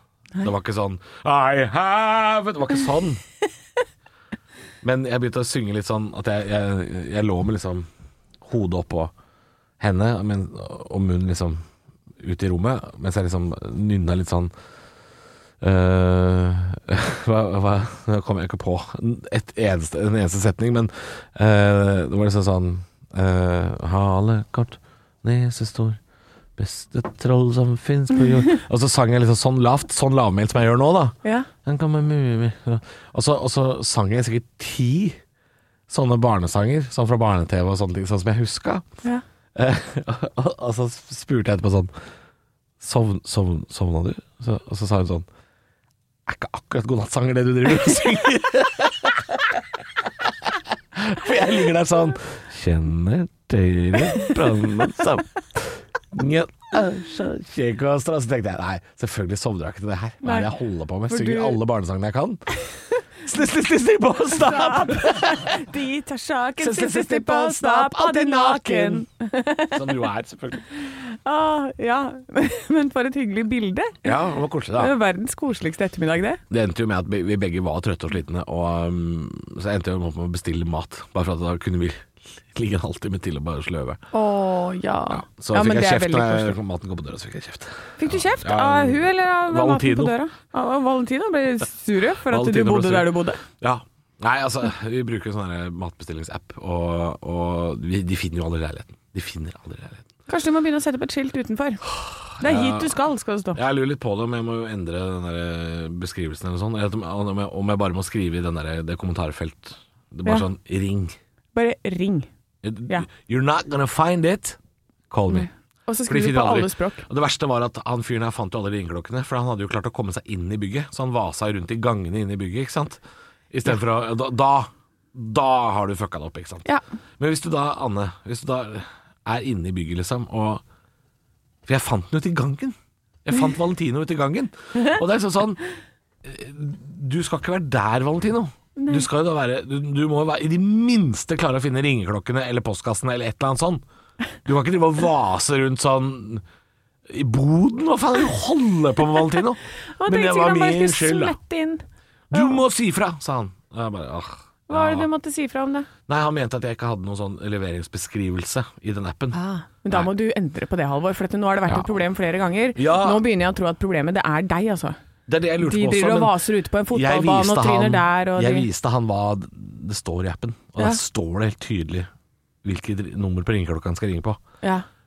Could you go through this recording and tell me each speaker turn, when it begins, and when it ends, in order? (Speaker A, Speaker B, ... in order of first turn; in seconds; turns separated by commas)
Speaker A: 0.4-3.2, Speaker A: 4.8-7.9, Speaker A: 8.4-9.1, Speaker A: 9.8-11.6, Speaker A: 12.2-14.5, Speaker A: 15.6-26.0, Speaker A: 26.6-35.2, Speaker A: 35.9-38.8, Speaker A: 39.5-41.9, Speaker A: 42.8-45.3, Speaker A: 46.3-62.6, Speaker B: 60.2-60.5, Speaker B: 61.1-61.6, Speaker A: 63.2-65.6, Speaker B: 64.3-69.8, Speaker A: 66.6-69.1, Speaker A: 69.7-70.6, Speaker B: 70.8-74.1, Speaker A: 74.0-74.9, Speaker B: 74.8-76.4, Speaker A: 76.5-84.0, Speaker B: 84.1-86.5, Speaker A: 85.1-90.1, Speaker B: 88.0-93.4, Speaker A: 92.3-100.0, Speaker B: 100.3-101.8, Speaker A: 102.0-103.0, Speaker B: 102.4-103.6, Speaker A: 103.5-111.2, Speaker B: 111.5-112.3, Speaker A: 112.6-114.6, Speaker A: 115.1-115.5, Speaker B: 115.3-117.0, Speaker A: 116.0-126.7, Speaker A: 127.2-130.6, Speaker A: 131.7-135.6, Speaker A: 136.2-143.8, Speaker B: 138.8-139.1, Speaker A: 144.4-146.4, Speaker A: 147.1-151.4, Speaker B: 149.9-152.6, Speaker A: 152.3-155.1, Speaker B: 154.7-155.9, Speaker A: 156.1-160.1, Speaker B: 159.3-164.9, Speaker A: 161.7-162.0, Speaker A: 162.7-163.2, Speaker A: 165.3-172.1, Speaker B: 165.6-168.7, Speaker A: 172.6-174.4